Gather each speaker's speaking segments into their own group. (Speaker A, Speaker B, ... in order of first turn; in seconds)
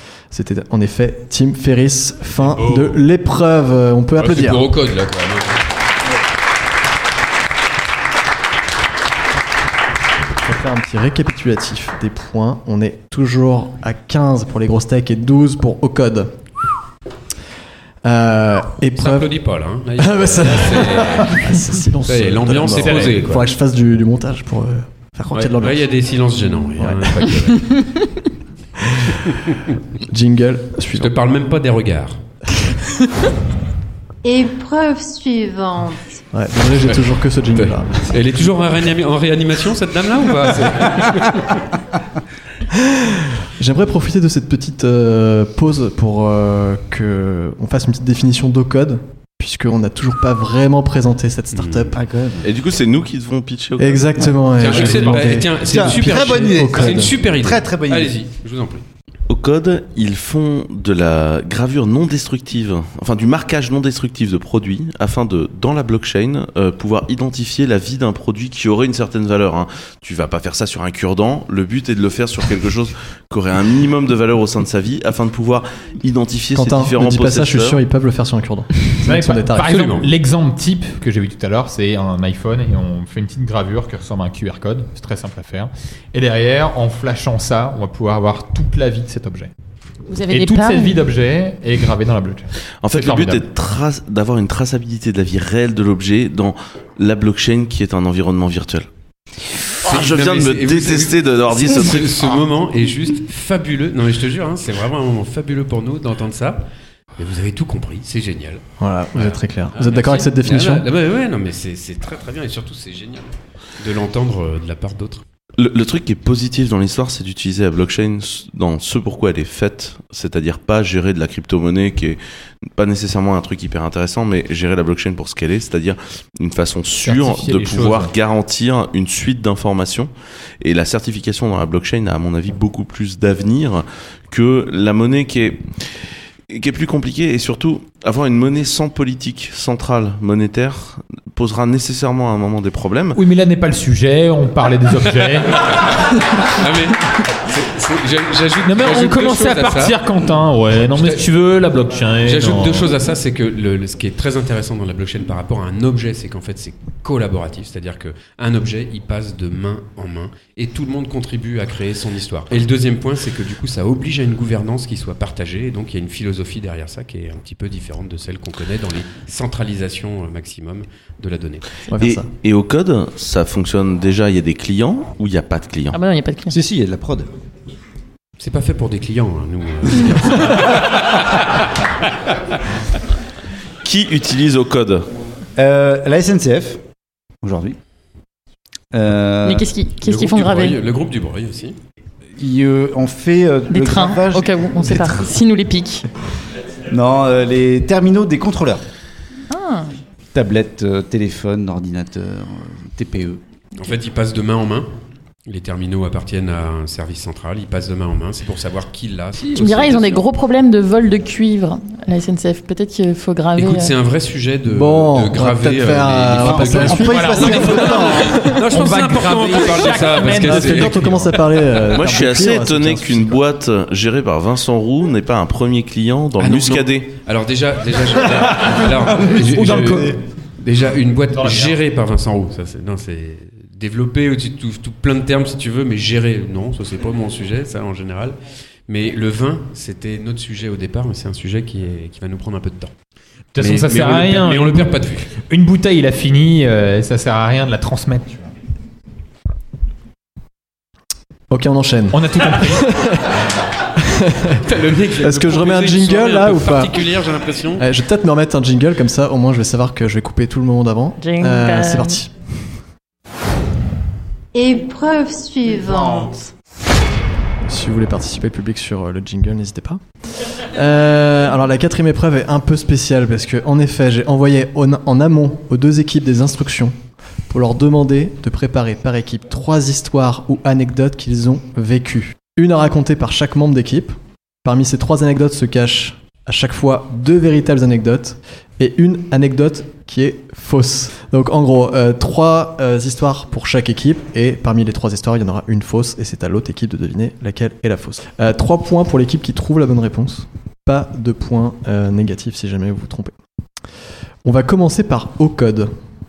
Speaker A: 0.3-4.7, 10.4-16.3, 18.0-19.4, 20.0-25.9, 26.8-27.3, 30.1-31.1, 36.3-38.0, 42.8-52.0, 53.8-57.1, 76.5-79.8, 108.8-110.9, 171.9-172.3, 214.7-218.6, 220.4-223.4, 251.5-253.3, 254.0-254.6, 255.2-257.0, 257.8-262.3, 267.7-270.0, 270.7-277.0, 277.5-303.4, 304.4-305.9
Speaker B: 2.6-2.9, 4.2-5.6, 19.0-21.5, 22.0-23.5, 25.3-27.9, 29.2-29.6, 30.9-32.2, 37.5-41.6, 51.5-51.9, 54.6-58.8, 79.7-80.1, 99.8-106.7, 107.2-108.6, 109.2-115.2, 146.4-150.0, 150.9-151.2, 152.2-171.7, 178.4-181.4, 190.0-191.8, 203.8-204.9, 205.5-210.2, 213.6-221.1, 226.4-238.4, 238.9-242.9, 243.6-245.3, 254.7-257.9
Speaker C: 22.7-23.1, 54.8-55.3, 79.0-89.5, 90.3-93.5, 127.0-128.1, 143.2-145.6, 148.6-152.9, 217.0-221.3, 229.5-230.2, 231.3-231.8, 243.5-245.0, 245.5-248.4, 252.1-252.9
Speaker D: 34.2-36.0, 264.5-266.5
Speaker E: 52.0-52.5, 55.6-58.1, 176.5-177.3, 185.6-186.8, 187.4-187.8, 188.9-189.7, 192.4-195.3, 196.9-198.8, 200.3-203.4, 216.4-218.4, 229.3-230.0
Speaker F: 52.4-54.4, 59.3-77.8, 92.8-98.9, 99.8-102.4, 115.6-122.2, 122.7-143.2, 172.0-176.0, 183.8-185.1, 221.9-227.1
Speaker G: 90.1-91.0, 175.9-176.6, 189.4-190.8, 193.7-196.1, 199.5-199.9, 209.6-213.9, 261.2-262.2